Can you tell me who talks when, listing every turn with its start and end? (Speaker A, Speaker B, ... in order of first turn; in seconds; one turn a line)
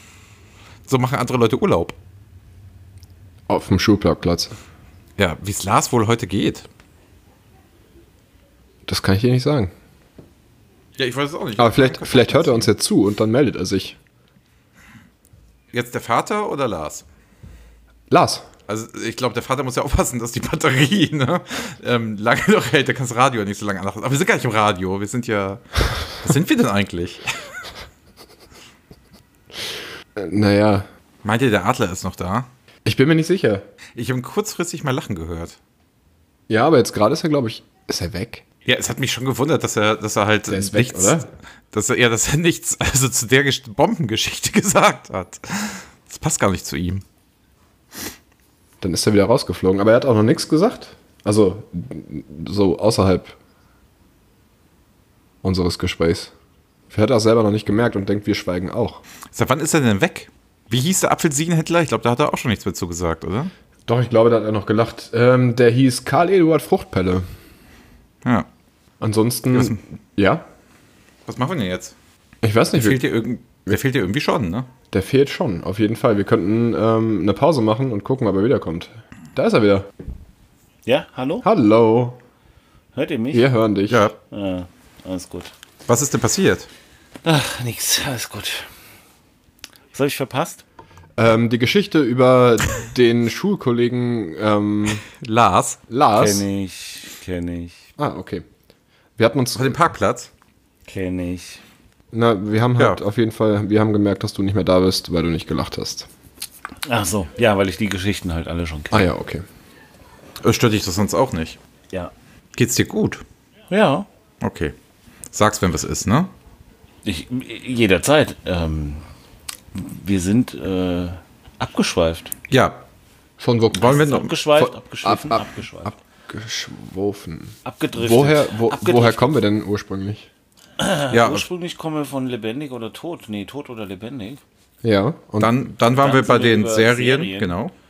Speaker A: 0.9-2.0
Speaker B: 3.5-4.5
Speaker A: 5.2-6.7
Speaker B: 8.9-9.7
Speaker A: 11.0-12.7
Speaker B: 11.6-14.0
Speaker A: 15.7-17.1
Speaker B: 18.1-18.4
Speaker A: 18.7-25.6
Speaker A: 26.2-27.5
Speaker B: 30.2-30.9
Speaker A: 31.2-32.5
Speaker B: 32.9-33.6
Speaker A: 34.0-35.6
Speaker B: 36.5-38.4
Speaker A: 38.7-47.0
Speaker B: 40.5-41.3
Speaker B: 48.8-53.4
Speaker B: 55.4-56.3
Speaker B: 56.9-59.0
Speaker A: 59.3-63.5
Speaker B: 63.9-67.2
Speaker B: 69.0-70.4
Speaker A: 69.5-69.8
Speaker A: 71.3-72.0
Speaker B: 72.4-73.0
Speaker A: 72.7-74.7
Speaker B: 74.9-79.9
Speaker C: 80.9-81.5
Speaker B: 81.4-82.2
Speaker C: 83.0-83.5
Speaker B: 83.3-84.0
Speaker A: 83.9-84.2
Speaker C: 84.3-85.5
Speaker A: 85.9-86.7
Speaker C: 87.2-88.7
Speaker C: 89.9-90.7
Speaker B: 91.2-95.1
Speaker A: 95.2-95.8
Speaker B: 95.9-96.5
Speaker C: 96.1-97.9
Speaker B: 98.0-98.5
Speaker B: 99.2-99.8
Speaker A: 99.5-100.3
Speaker C: 100.9-101.6
Speaker B: 102.1-106.1
Speaker C: 106.8-109.1
Speaker B: 108.9-109.5
Speaker A: 110.4-111.6
Speaker A: 112.6-113.2
Speaker C: 113.7-114.1
Speaker A: 114.4-114.8
Speaker A: 115.3-116.3
Speaker C: 117.0-119.0
Speaker C: 119.7-122.3
Speaker A: 122.5-122.8
Speaker B: 123.4-130.3
Speaker C: 123.8-125.9
Speaker A: 123.9-124.2
Speaker C: 127.7-129.4
Speaker C: 130.8-134.4
Speaker A: 131.1-131.5
Speaker B: 134.8-135.6
Speaker A: 135.4-137.7
Speaker C: 135.9-137.6